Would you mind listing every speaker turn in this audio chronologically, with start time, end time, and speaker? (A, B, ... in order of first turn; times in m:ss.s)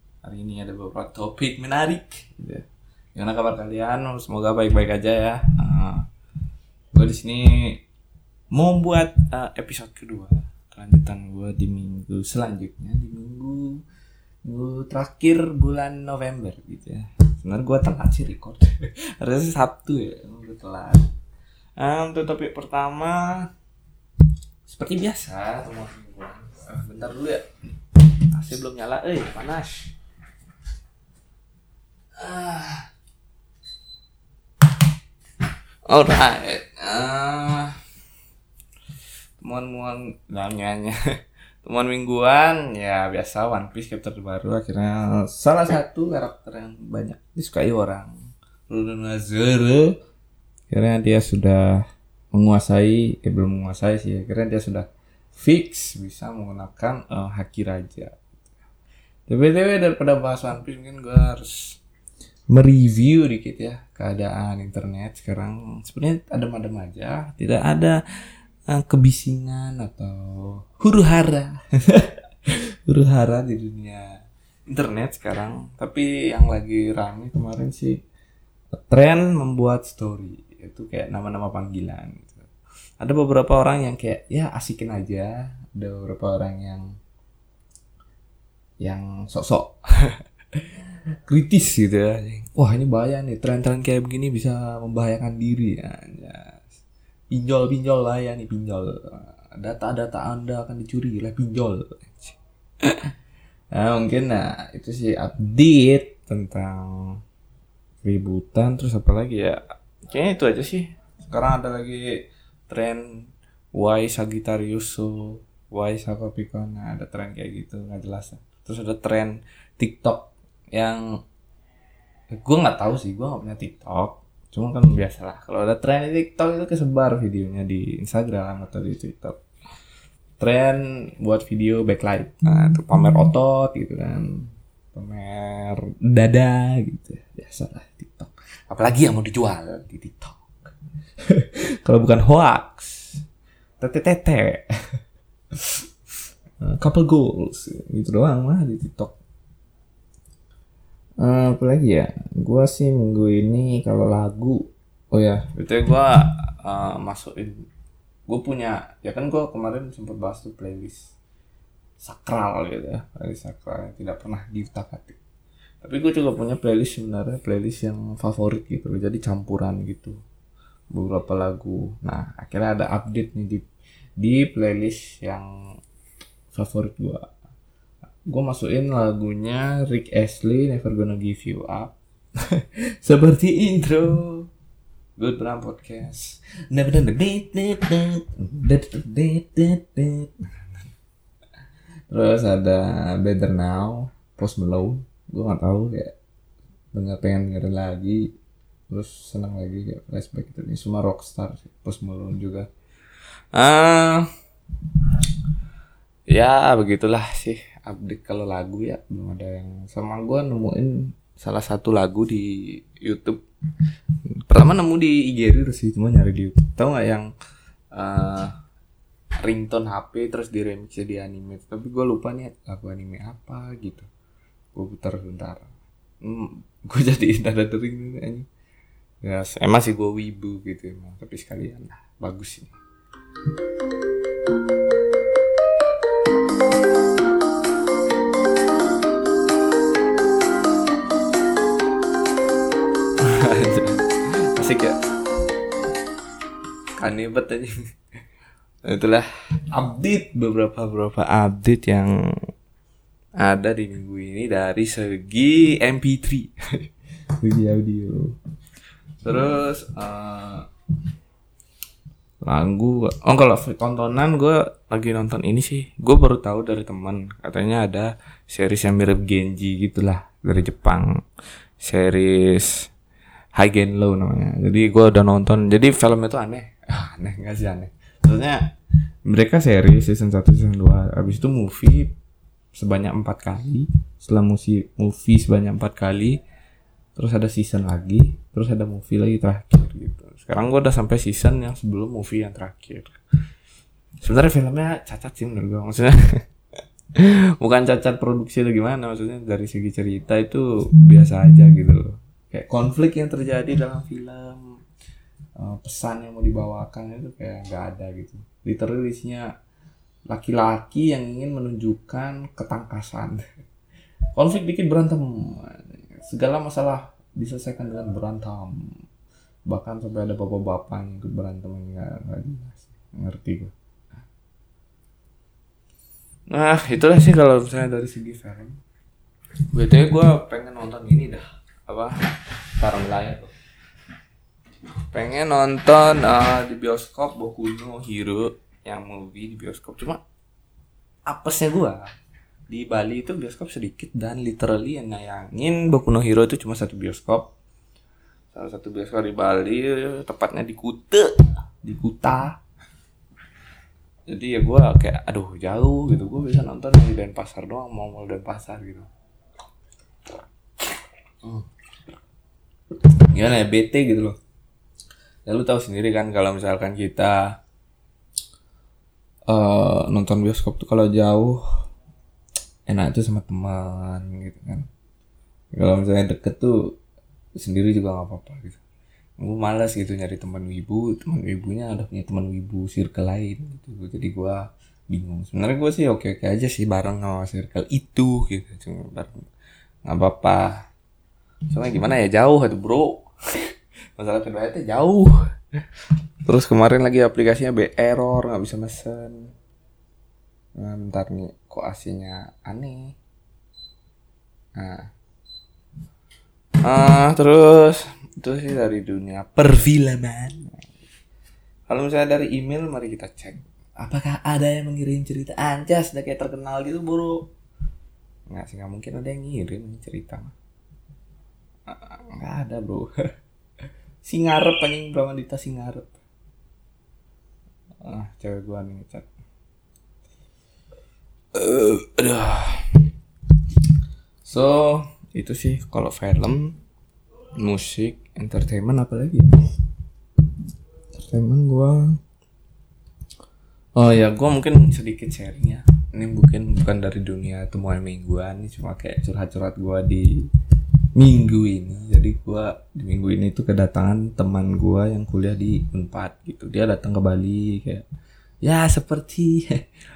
0:00.2-0:06.0 A
0:06.9-0:07.8 A
0:08.5-0:13.8 A
0:14.4-0:21.0 A
0:21.8-0:23.5 A
0:24.7-0:27.4 A
0:28.0-0:29.9 A
0:32.2-0:32.9 A
0:35.9-0:37.8 A
0:39.4-0:41.0 A
0:41.6-0:48.1 A
0:48.7-0:50.0 A
0:50.7-0:58.2 A
0:59.3-1:01.8 A
1:02.5-1:08.0 A
1:08.7-1:12.2 A
1:12.9-1:14.0 A
1:14.7-1:18.0 A
1:18.8-1:22.5 A
1:23.0-1:26.9 A
1:28.8-1:30.7 A
1:31.3-1:36.7 A
1:37.3-1:43.0 A
1:43.7-1:47.2 A
1:48.0-1:53.0 A
1:53.7-2:01.0 A
2:02.3-2:09.4 A
2:10.4-2:20.7 A
2:21.3-2:23.2 A
2:23.8-2:24.7 A
2:26.6-2:29.2 A
2:31.2-2:37.6 A
2:38.3-2:41.2 A
2:42.0-2:45.2 A
2:45.8-2:50.2 A
2:50.9-2:53.7 A
2:54.2-2:55.5 A
2:56.5-2:57.3 A
2:58.3-3:02.0 A
3:02.5-3:04.5 A
3:05.2-3:10.8 A
3:12.1-3:16.2 A
3:16.9-3:18.2 A
3:18.9-3:22.7 A
3:23.5-3:24.3 A
3:26.3-3:32.5 A
3:33.0-3:33.4 A
3:34.5-3:37.3 A
3:37.9-3:38.5 A
3:39.4-3:44.1 A
3:44.7-3:48.5 A
3:49.2-3:52.8 A
4:03.2-4:05.0 A
4:07.0-4:07.7 A
4:08.9-4:12.2 A
4:13.4-4:16.5 A
4:17.4-4:18.3 A
4:19.2-4:20.7 A
4:22.4-4:31.2 A
4:31.8-4:32.8 A
4:33.6-4:38.6 A
4:39.3-4:42.1 A
4:42.7-4:46.4 A
4:47.2-4:53.1 A
4:54.2-4:56.4 A
4:57.2-5:04.6 A
5:05.6-5:09.4 A
5:10.3-5:13.4 A
5:14.4-5:18.8 A
5:19.7-5:23.7 A
5:26.5-5:28.8 A
5:29.7-5:32.1 A
5:32.8-5:33.5 A
5:35.1-5:40.2 A
5:41.3-5:42.0 A
5:42.7-5:47.5 A
5:48.5-5:52.6 A
5:54.3-5:59.1 A
6:02.9-6:04.4 A
6:05.5-6:07.4 A
6:09.5-6:11.6 A
6:12.9-6:14.9 A
6:15.7-6:17.0 A
6:17.6-6:18.8 A
6:19.4-6:29.4 A
6:30.0-6:30.8 A
6:31.7-6:33.3 A
6:34.2-6:35.4 A
6:36.5-6:39.5 A
6:40.8-6:43.2 A
6:44.8-6:45.1 A
6:46.8-6:50.8 A
6:51.9-6:57.4 A
6:58.5-7:00.6 A
7:01.9-7:03.1 A
7:04.2-7:06.2 A
7:08.0-7:09.3 A
7:11.5-7:13.0 A
7:14.4-7:16.8 A
7:17.6-7:19.5 A
7:21.2-7:22.2 A
7:24.0-7:30.3 A
7:31.2-7:38.0 A
7:38.6-7:39.8 A